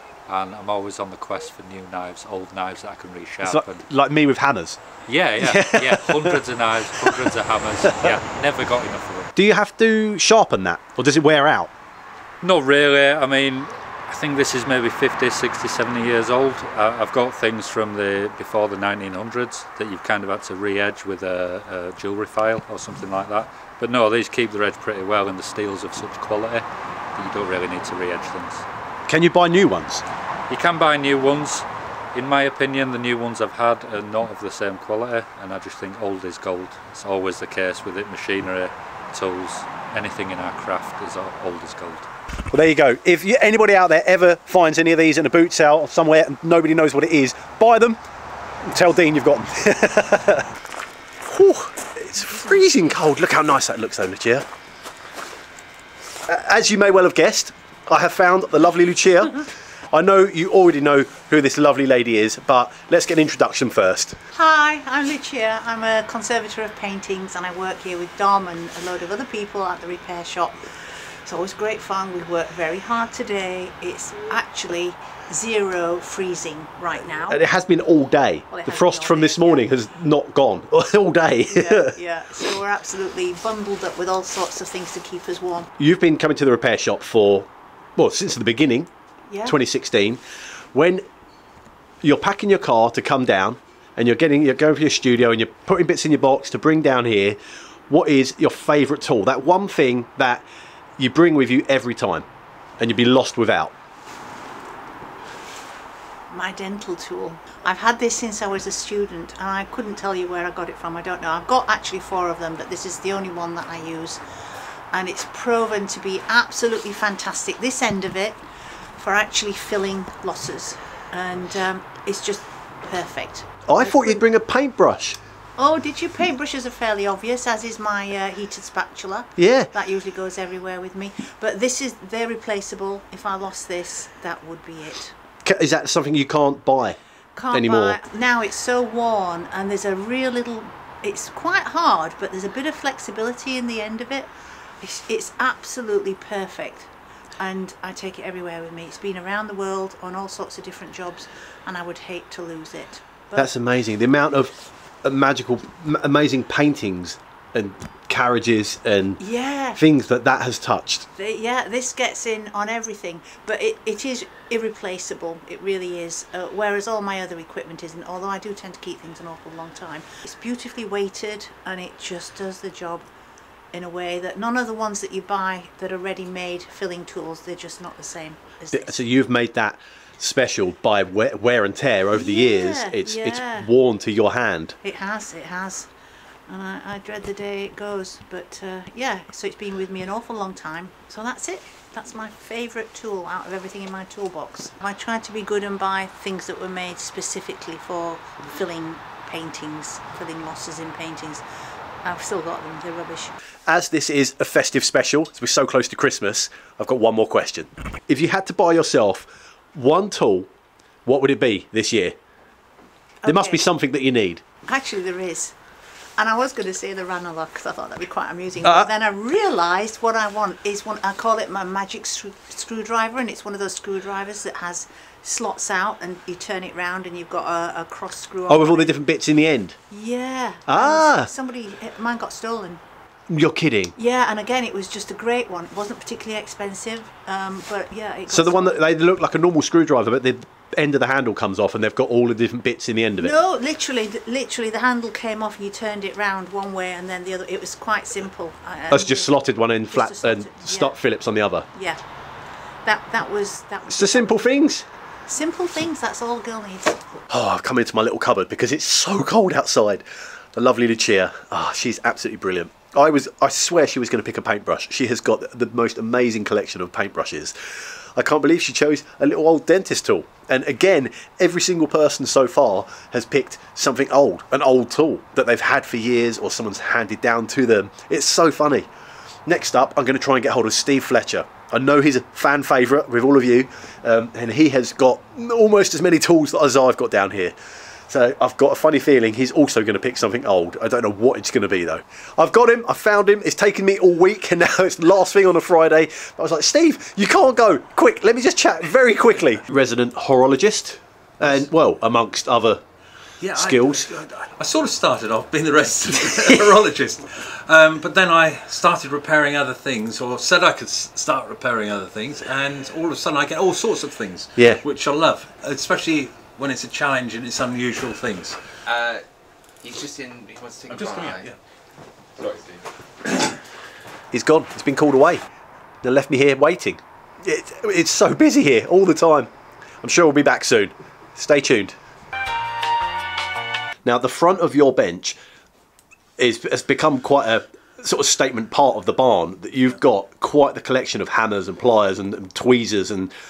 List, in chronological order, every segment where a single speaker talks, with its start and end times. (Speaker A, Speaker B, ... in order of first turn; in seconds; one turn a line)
Speaker A: 0.3-3.8
Speaker B: 3.4-4.8
Speaker A: 5.1-9.3
Speaker B: 5.4-6.4
Speaker B: 7.0-7.3
Speaker B: 7.9-8.2
Speaker B: 9.3-11.7
Speaker A: 12.4-28.6
Speaker B: 29.1-30.0
Speaker A: 30.5-42.1
Speaker B: 42.5-48.0
Speaker B: 48.6-50.5
Speaker B: 51.2-54.5
Speaker B: 56.3-64.2
Speaker C: 64.3-77.4
Speaker B: 77.3-81.9
Speaker C: 78.5-79.7
Speaker C: 81.5-85.7
Speaker B: 85.8-88.9
Speaker C: 89.3-89.6
Speaker B: 89.4-90.2
Speaker B: 90.7-91.0
Speaker B: 92.0-100.5
Speaker B: 101.0-102.2
Speaker B: 102.8-103.7
Speaker C: 106.3-114.2
Speaker C: 114.9-118.4
Speaker C: 119.0-124.2
Speaker B: 123.7-125.2
Speaker C: 125.6-135.1
Speaker B: 129.4-129.7
Speaker B: 135.4-137.0
Speaker C: 137.3-144.3
Speaker B: 137.5-138.0
Speaker C: 144.8-153.5
Speaker B: 153.3-159.2
Speaker C: 159.2-159.8
Speaker B: 159.7-161.1
Speaker C: 161.2-173.0
Speaker C: 173.7-179.0
Speaker B: 178.7-184.8
Speaker C: 182.1-183.7
Speaker C: 184.8-185.9
Speaker C: 186.5-201.4
Speaker C: 202.0-203.3
Speaker B: 203.7-210.5
Speaker B: 211.1-212.1
Speaker C: 213.2-213.6
Speaker B: 213.2-214.4
Speaker C: 214.7-215.5
Speaker C: 216.2-228.9
Speaker B: 218.6-218.9
Speaker B: 228.5-229.8
Speaker C: 229.9-232.8
Speaker B: 230.7-231.3
Speaker B: 233.3-233.9
Speaker C: 234.0-238.8
Speaker B: 238.3-243.3
Speaker C: 243.2-249.3
Speaker B: 248.9-251.7
Speaker C: 249.9-251.0
Speaker C: 251.7-252.0
Speaker C: 252.8-254.6
Speaker B: 253.9-254.8
Speaker C: 255.3-257.0
Speaker B: 257.3-278.9
Speaker B: 279.5-287.5
Speaker B: 288.1-302.8
Speaker D: 303.4-318.6
Speaker B: 303.5-304.1
Speaker B: 314.6-314.8
Speaker E: 318.9-319.2
Speaker E: 319.8-321.4
Speaker D: 320.9-321.6
Speaker E: 322.4-322.9
Speaker B: 324.3-325.4
Speaker B: 326.0-329.5
Speaker B: 330.0-331.9
Speaker B: 334.0-335.4
Speaker B: 336.4-343.3